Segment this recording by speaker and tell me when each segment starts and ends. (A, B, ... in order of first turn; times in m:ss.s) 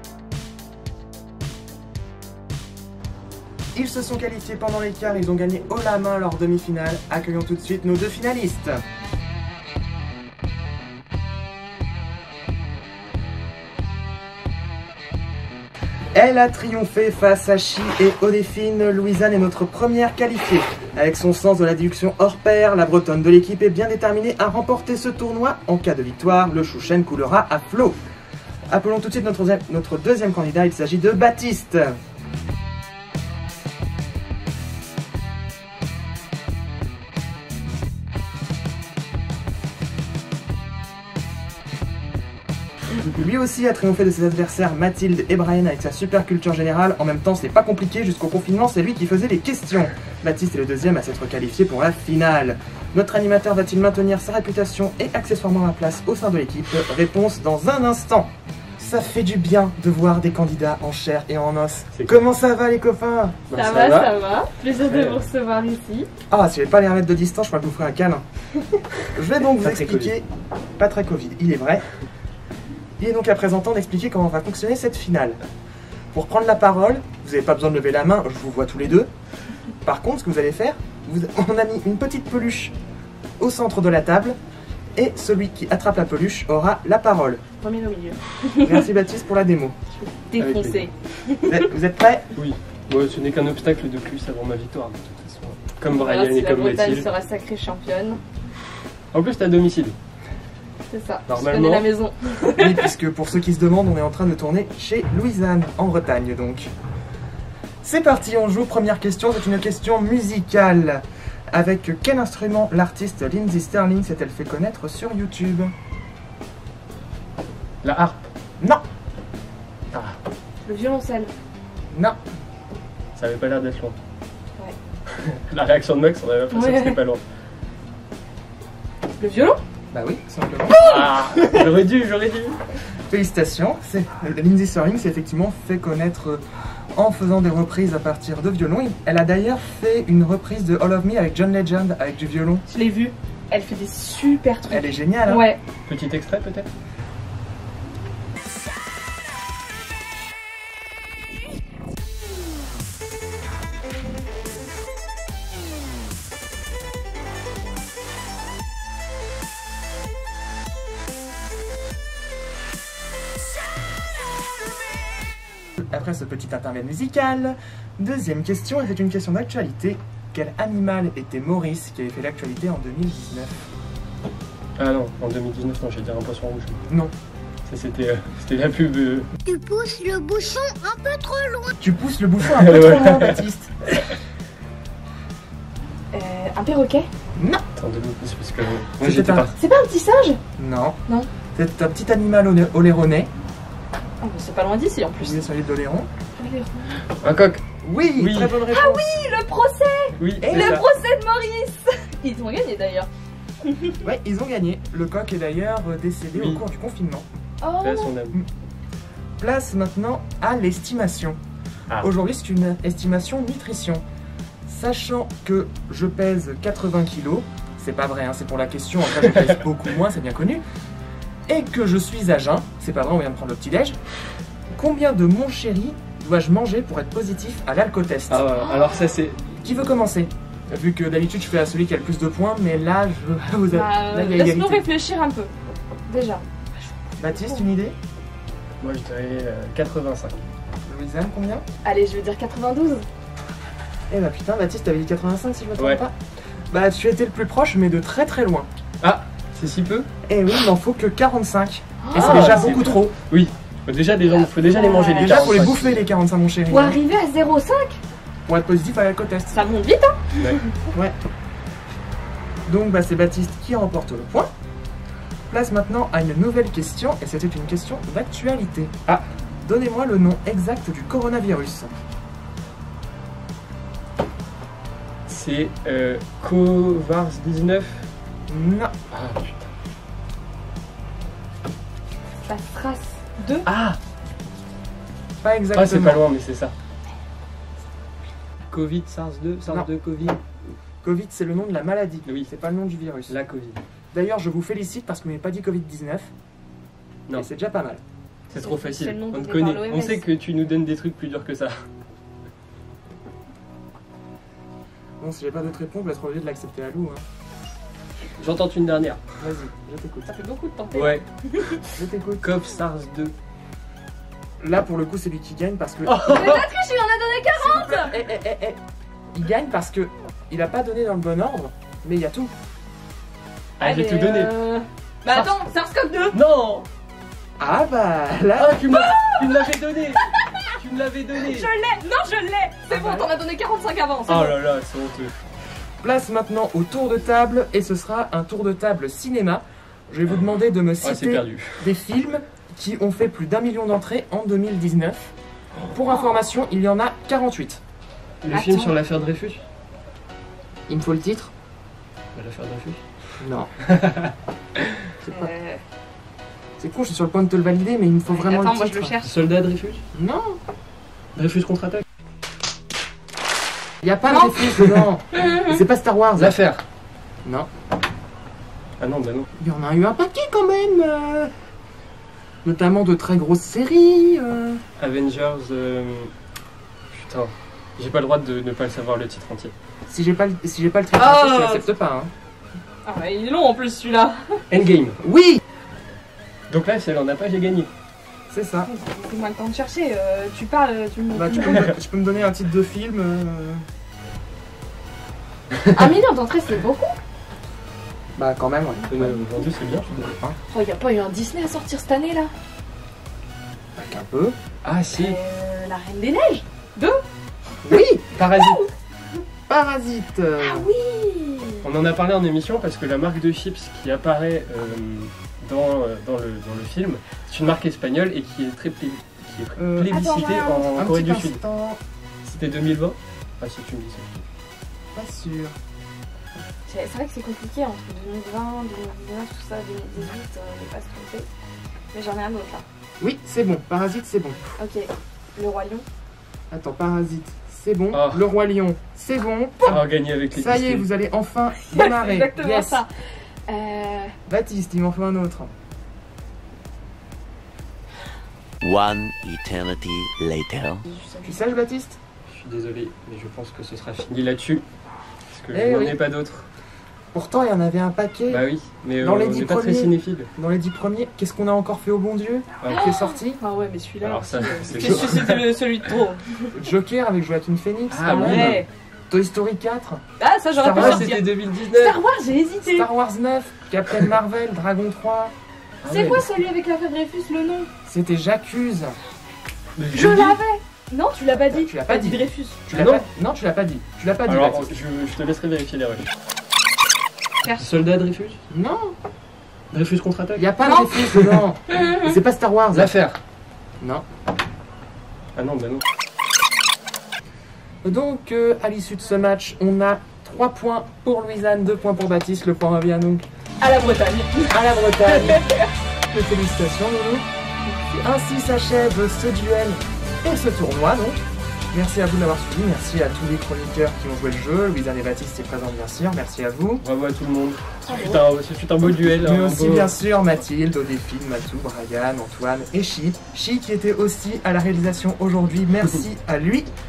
0:03.7-0:08.8 A
0:16.1-0:28.0 A
0:28.7-0:32.0 A
0:43.0-1:03.4 A
1:03.5-1:04.2 B
1:03.5-1:06.1 C
1:04.7-1:05.3 B
1:06.3-1:08.2 A
1:09.1-1:10.2 A
1:09.6-1:10.1 B
1:10.8-1:11.8 A
1:13.0-1:15.4 A
1:16.1-1:19.1 A
1:19.8-1:22.7 A
1:23.4-1:24.4 A
1:25.0-1:27.4 A
1:27.6-1:28.8 C
1:28.6-1:29.8 A
1:30.0-1:31.7 C
1:30.4-1:30.8 B
1:31.4-1:32.3 A
1:32.3-1:37.1 B
1:35.9-1:38.2 C
1:39.1-1:40.0 B
1:40.9-1:42.9 C
1:41.3-1:41.9 B
1:42.5-1:46.7 A
1:47.8-1:55.7 A
1:57.8-1:58.3 B
1:59.9-2:00.2 B
2:00.6-2:01.3 C
2:01.9-2:02.2 A
2:03.1-2:04.0 B
2:05.2-2:07.2 B
2:06.5-2:07.0 C
2:09.2-2:09.6 C
2:09.9-2:11.1 A
2:10.7-2:12.6 B
2:10.8-2:11.0 C
2:13.1-2:16.4 A
2:16.9-2:22.6 A
2:22.7-2:25.6 C
2:24.7-2:25.4 A
2:25.9-2:26.7 B
2:45.9-2:53.7 A
2:54.8-2:56.8 B
2:57.7-2:59.3 B
2:59.4-3:01.5 D
3:00.0-3:00.5 E
3:01.8-3:03.7 A
3:02.5-3:03.4 B
3:06.1-3:07.0 C
3:07.4-3:07.6 A
3:07.8-3:09.6 B
3:09.0-3:09.5 A
3:09.6-3:10.4 C
3:10.6-3:11.0 A
3:11.5-3:13.3 A
3:14.2-3:15.5 C
3:15.2-3:16.1 A
3:16.4-3:17.0 C
3:17.2-3:17.6 B
3:17.8-3:19.1 A
3:18.2-3:18.6 B
3:18.7-3:23.1 C
3:20.2-3:20.8 B
3:20.4-3:20.8 A
3:23.6-3:24.0 C
3:24.0-3:27.3 A
3:26.3-3:26.6 B
3:27.6-3:28.1 C
3:27.8-3:28.4 B
3:29.4-3:31.4 A
3:32.0-3:34.0 A
3:34.6-3:40.6 A
3:41.5-3:44.0 A
3:44.7-3:48.4 A
3:48.3-3:49.5 B
3:48.5-3:49.0 C
3:49.6-3:54.8 A
3:53.7-3:55.5 C
3:56.1-3:57.7 C
3:57.2-3:58.0 A
3:58.8-4:00.4 B
4:00.8-4:01.6 A
4:01.8-4:03.0 C
4:04.1-4:06.1 A
4:06.7-4:08.7 A
4:09.0-4:10.1 B
4:10.2-4:13.1 A
4:12.0-4:13.0 C
4:12.1-4:16.1 B
4:14.6-4:15.3 C
4:15.2-4:17.0 A
4:16.7-4:18.0 C
4:18.4-4:19.6 A
4:19.5-4:20.7 C
4:22.6-4:24.5 A
4:25.5-4:29.0 A
4:29.6-4:31.9 A
4:35.3-4:38.1 B
4:38.5-4:38.9 A
4:39.1-4:39.7 B
4:42.4-4:43.6 C
4:43.6-4:44.0 B
4:45.4-4:46.2 A
4:45.7-4:46.7 B
4:48.7-4:50.4 B
4:51.0-4:53.4 A
4:53.3-4:53.8 B
4:54.1-4:56.3 A
4:57.3-4:58.0 A
4:58.5-5:01.7 B
4:58.6-5:00.2 C
5:05.2-5:07.2 A
5:08.4-5:09.2 B
5:09.4-5:10.3 A
5:10.2-5:11.7 C
5:10.9-5:13.3 B
5:12.0-5:12.5 A
5:14.6-5:16.4 A
5:16.0-5:16.7 B
5:16.2-5:18.2 C
5:17.6-5:18.8 A
5:19.3-5:22.5 A
5:23.8-5:24.5 B
5:23.8-5:26.4 C
5:26.3-5:26.9 B
5:27.6-5:28.8 A
5:28.6-5:31.7 B
5:28.9-5:29.7 C
5:30.3-5:30.6 C
5:31.3-5:34.6 C
5:32.9-5:33.3 A
5:34.2-5:35.3 B
5:36.0-5:45.3 A
5:41.0-5:41.9 B
5:45.9-5:47.8 A
5:48.4-5:49.6 B
5:48.5-5:49.0 C
5:50.9-5:51.5 A
5:52.3-5:53.0 B
5:53.4-5:53.7 A
5:53.9-5:54.3 B
5:55.2-5:55.5 A
5:55.3-5:55.8 C
5:56.8-5:59.2 A
5:58.3-5:59.3 C
5:59.2-6:00.0 B
6:00.1-6:00.6 A
6:01.3-6:02.0 B
6:04.0-6:06.6 A
6:04.3-6:04.6 C
6:05.3-6:05.6 C
6:06.4-6:06.8 B
6:09.0-6:09.5 B
6:09.6-6:11.5 A
6:12.6-6:14.8 A
6:15.0-6:16.3 B
6:17.1-6:19.7 B
6:20.1-6:22.3 A
6:21.1-6:21.9 C
6:23.0-6:24.6 C
6:24.7-6:25.2 B
6:25.2-6:25.6 A
6:26.7-6:27.9 B
6:28.5-6:28.9 A
6:28.8-6:31.9 C
6:31.3-6:33.8 A
6:35.8-6:37.2 C
6:38.4-6:39.4 A
6:39.1-6:40.4 B
6:40.7-6:42.5 C
6:44.0-6:44.6 A
6:44.8-6:45.4 B
6:45.1-6:47.2 C
6:47.8-6:48.5 A
6:48.3-6:48.8 B
6:48.5-6:48.9 C
6:49.7-6:50.9 A
6:50.6-6:51.9 C
6:51.8-7:01.6 B
6:59.8-7:00.2 A
7:00.1-7:01.0 C
7:00.9-7:02.0 A
7:02.4-7:04.4 B
7:05.1-7:05.8 A
7:06.9-7:11.5 C
7:12.1-7:12.8 C
7:13.2-7:14.6 A
7:14.8-7:16.0 C
7:16.7-7:23.0 A
7:18.1-7:18.5 B
7:19.8-7:21.0 B
7:21.7-7:24.4 C
7:24.5-7:25.7 A
7:28.8-7:31.0 E
7:31.0-7:31.6 C
7:31.4-7:32.2 A
7:32.5-7:34.8 B
7:35.5-7:36.7 B
7:35.7-7:36.2 A
7:37.3-7:38.6 A
7:38.5-7:40.5 B
7:39.2-7:43.6 A
7:42.8-7:43.2 B
7:42.9-7:46.7 C
7:44.2-7:46.2 B
7:44.9-7:45.4 A
7:46.7-7:50.2 A
7:48.1-7:48.8 B
7:48.2-7:48.9 C
7:50.4-7:53.1 C
7:50.8-7:51.3 A
7:50.8-7:52.2 B
7:52.8-7:56.4 A
7:56.0-7:56.5 B
7:56.1-7:57.9 C
7:58.0-7:59.2 A
8:00.0-8:00.6 B
8:00.1-8:02.9 C
8:01.7-8:04.9 A
8:02.9-8:03.2 B
8:04.5-8:06.3 B
8:07.6-8:08.6 B
8:08.7-8:09.1 A
8:09.9-8:10.7 B
8:10.6-8:13.1 A
8:10.8-8:11.2 C
8:11.3-8:11.6 B
8:11.9-8:12.3 C
8:12.9-8:13.4 B
8:15.5-8:16.0 B
8:18.0-8:23.4 A
8:23.8-8:26.0 C
8:24.7-8:25.6 A
8:26.3-8:27.4 A
8:27.8-8:28.2 C
8:28.2-8:31.4 A
8:31.9-8:37.0 A
8:37.0-8:40.2 B
8:38.1-8:38.4 C
8:39.2-8:46.9 A